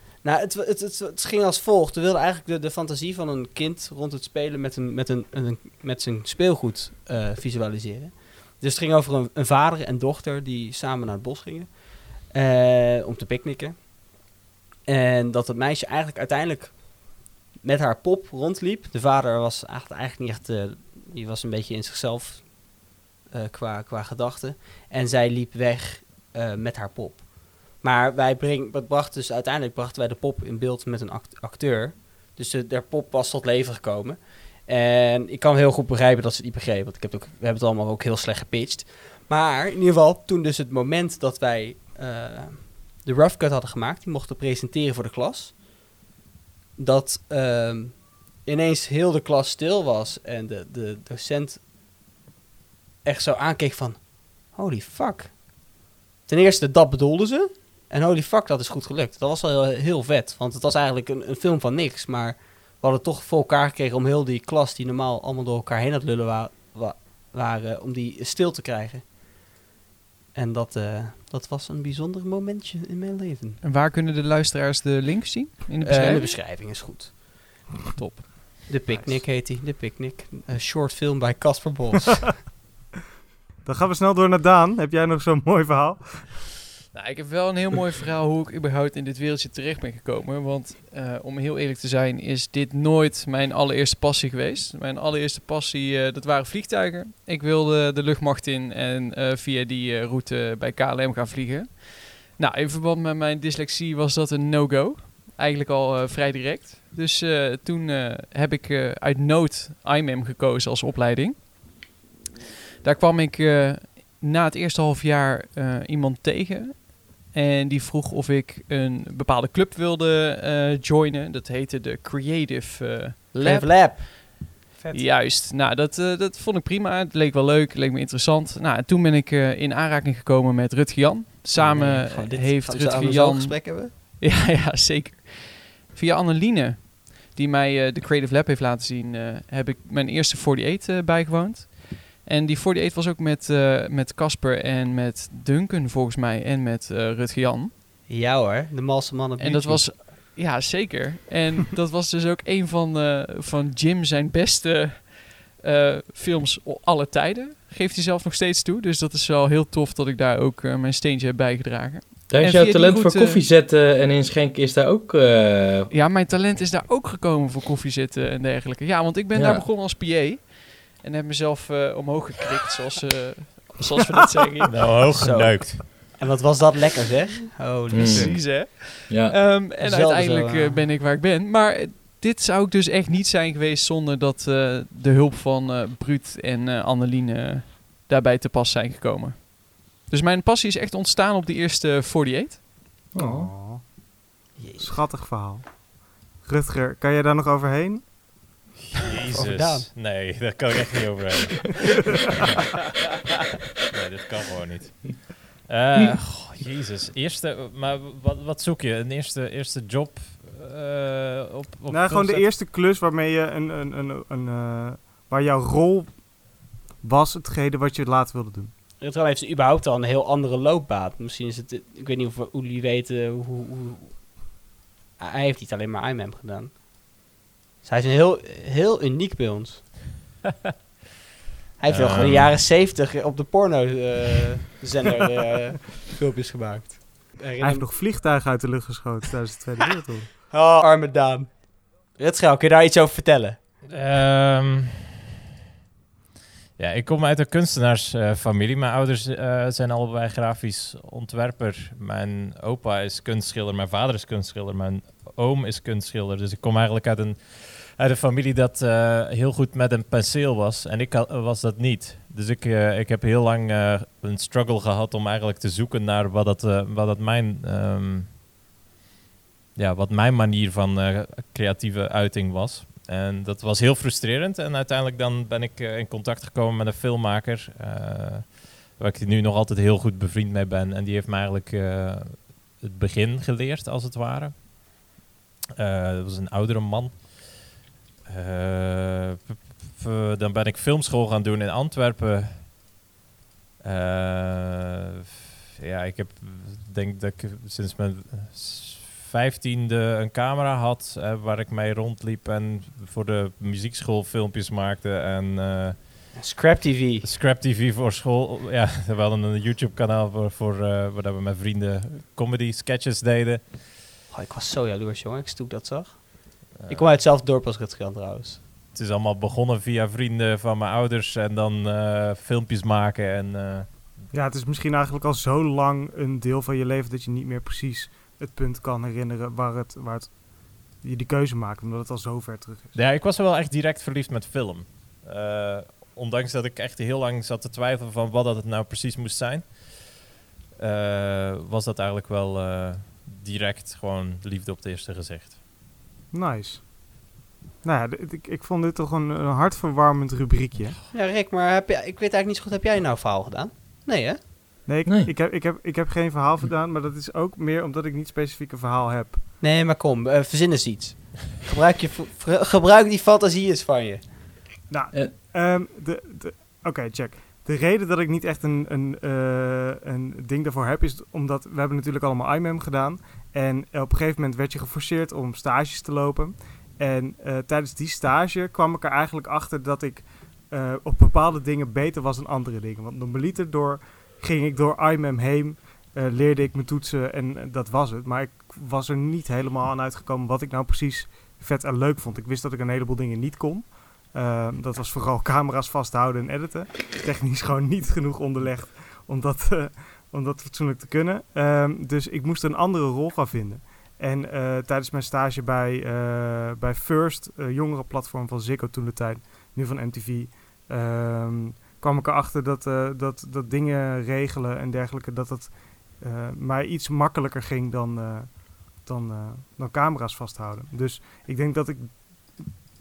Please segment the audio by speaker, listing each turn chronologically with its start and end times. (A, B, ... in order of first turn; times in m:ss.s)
0:00.2-0:13.9 A
0:14.9-0:22.6 A
0:23.3-0:45.6 A
0:46.8-0:51.6 A
0:53.0-0:55.5 A
0:56.2-1:09.0 A
1:10.3-1:13.6 A
1:13.6-1:16.4 B
1:15.8-1:17.2 A
1:17.9-1:18.7 B
1:18.7-1:22.4 A
1:18.9-1:19.2 C
1:23.6-1:26.5 C
1:26.9-1:51.6 B
1:52.8-2:27.7 B
2:03.4-2:04.4 A
2:11.6-2:13.9 A
2:28.1-2:29.9 A
2:29.4-2:43.4 B
2:42.3-2:45.9 D
2:45.9-2:54.9 B
2:49.3-2:49.6 D
2:54.7-2:55.9 E
2:55.1-2:58.3 A
2:57.9-2:59.4 D
2:58.0-3:12.6 B
2:59.8-3:00.8 A
3:13.1-3:13.8 C
3:13.1-3:13.5 D
3:14.6-3:15.0 A
3:14.8-3:15.8 C
3:16.4-3:18.2 C
3:19.0-3:21.9 E
3:19.3-3:19.9 A
3:23.8-3:32.5 E
3:31.9-3:36.3 C
3:37.0-3:38.7 C
3:39.0-3:44.2 A
3:45.2-3:46.8 A
3:47.8-3:50.0 A
3:51.8-3:57.8 A
3:51.9-3:52.6 E
3:57.6-4:00.3 C
4:00.5-4:03.6 A
4:03.9-4:05.2 E
4:06.8-4:28.3 E
4:29.8-4:44.6 E
4:45.8-4:47.6 E
4:48.2-4:52.7 E
4:53.8-4:55.1 E
4:55.7-5:06.3 E
5:06.3-5:07.3 A
5:07.2-5:13.7 E
5:14.3-5:18.6 A
5:16.8-5:17.2 E
5:18.9-5:24.1 E
5:24.3-5:32.9 C
5:32.9-5:40.1 E
5:40.8-5:45.6 E
5:46.3-5:46.9 C
5:47.8-5:51.0 C
5:51.1-5:54.6 A
5:54.8-5:59.5 C
5:55.0-5:55.3 D
5:59.6-6:04.4 A
6:04.9-7:02.7 C